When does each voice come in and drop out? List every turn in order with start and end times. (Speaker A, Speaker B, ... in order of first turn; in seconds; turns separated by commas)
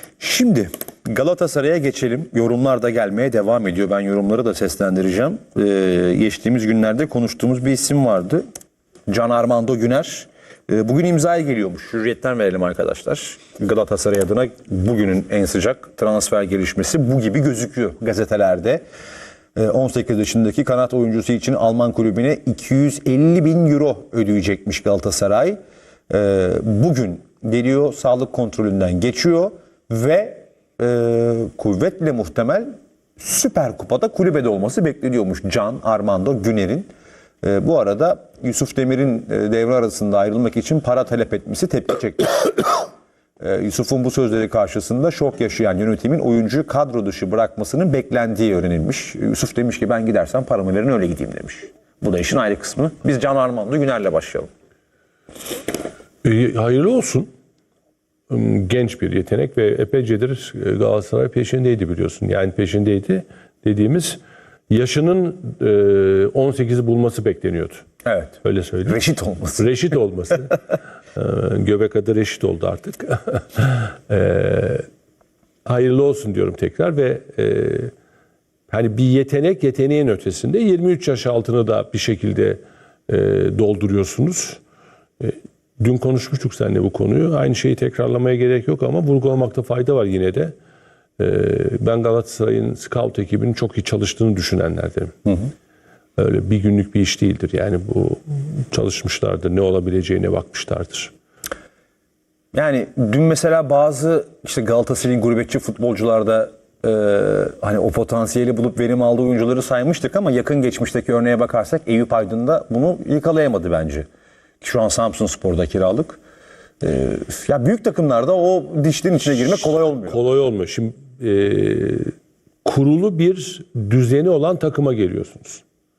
Speaker A: 0.2-8.4, Speaker A: 9.1-18.8, Speaker A: 19.6-25.6, Speaker A: 26.1-36.9, Speaker A: 37.4-42.9, Speaker A: 43.4-54.5, Speaker B: 56.2-57.3, Speaker B: 58.3-64.2, Speaker B: 64.7-67.8, Speaker A: 68.0-69.6, Speaker B: 68.4-69.0, Speaker B: 69.6-70.6, Speaker B: 71.2-74.9, Speaker B: 75.7-77.9, Speaker B: 78.7-84.6, Speaker B: 85.2-90.5, Speaker B: 91.2-95.1, Speaker B: 96.2-101.1, Speaker A: 102.5-114.1, Speaker A: 114.6-116.2, Speaker A: 116.8-120.2, Speaker B: 120.0-122.1, Speaker B: 122.6-125.6